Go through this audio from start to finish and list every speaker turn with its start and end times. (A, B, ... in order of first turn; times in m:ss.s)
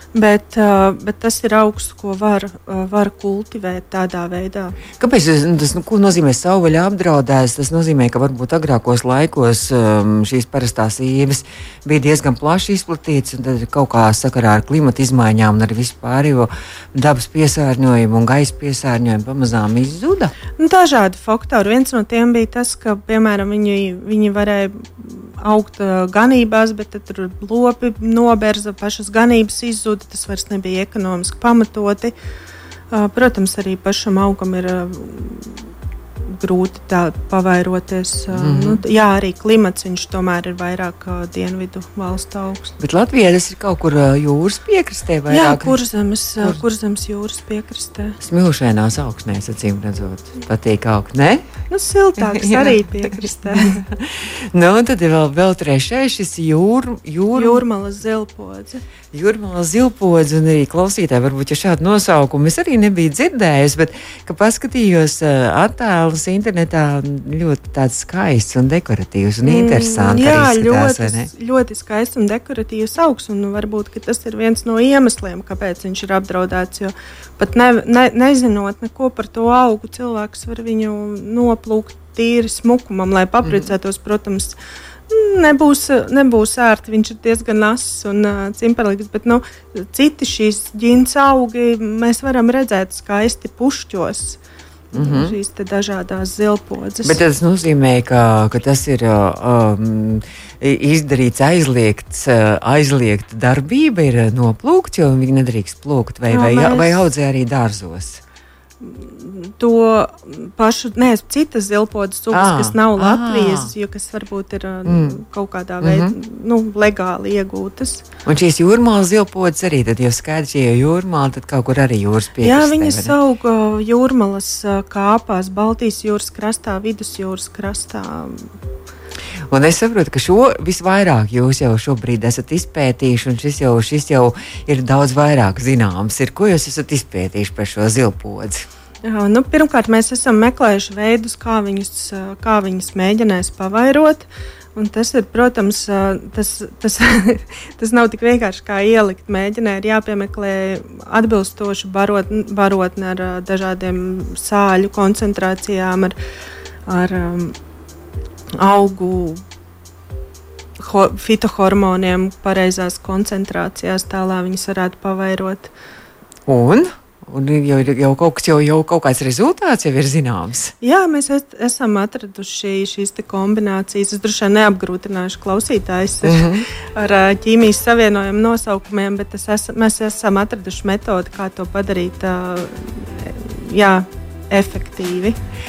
0:00.1-0:04.8 A
0:05.0-0:20.3 B
0:20.6-0:32.1 A
0:32.9-0:35.6 A
0:36.3-0:42.7 A
0:38.3-0:38.8 B
0:42.8-0:45.8 B
0:45.3-0:48.2 A
0:48.2-0:51.4 B
0:51.7-0:53.8 A
0:52.3-0:57.6 B
0:57.3-0:58.8 A
0:59.1-1:11.3 B
1:09.4-1:24.6 A
1:23.4-1:23.7 B
1:25.1-1:34.4 A
1:34.9-1:37.2 A
1:34.9-1:35.4 B
1:37.0-1:48.2 B
1:46.3-1:47.1 A
1:48.8-1:58.0 A
1:52.3-1:53.7 B
1:54.8-1:55.2 B
1:55.8-1:56.1 B
1:58.2-2:03.1 B
2:02.4-2:08.5 A
2:09.5-2:18.6 B
2:19.0-2:36.2 A
2:36.8-2:37.6 A
2:38.6-2:39.4 A
2:40.8-2:45.7 A
2:46.4-2:50.7 B
2:50.8-3:05.4 A
2:56.2-2:56.6 B